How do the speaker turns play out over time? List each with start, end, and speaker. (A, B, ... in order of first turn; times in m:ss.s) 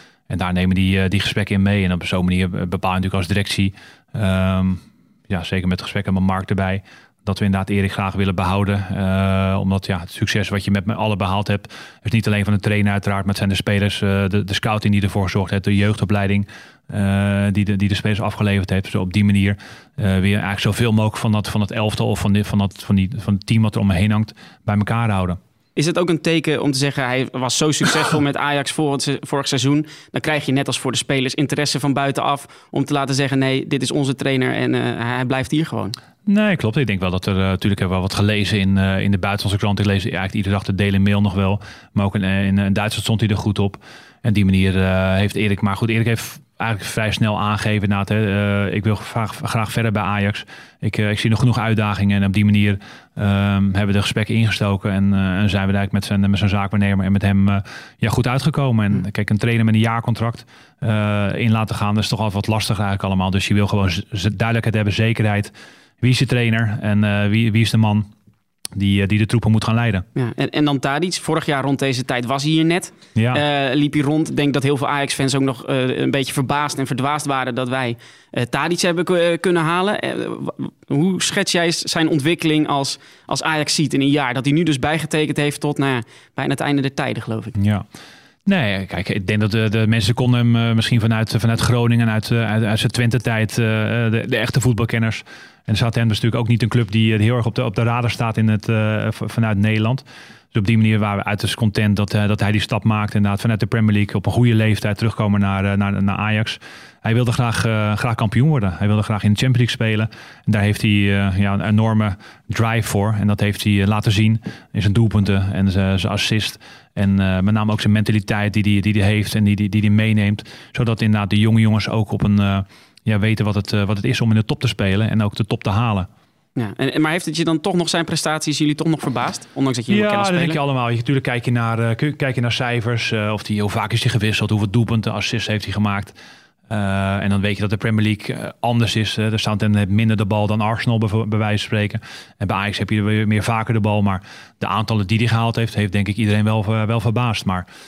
0:00.3-0:25.4 A
0:25.8-0:36.0 B
0:36.3-1:08.1 A
1:08.8-1:10.0 A
1:10.2-1:27.6 B
1:13.2-1:13.4 A
1:27.6-1:27.8 A
1:28.5-2:06.1 A
2:06.6-2:10.6 B
2:09.9-2:16.2 A
2:16.7-2:27.7 A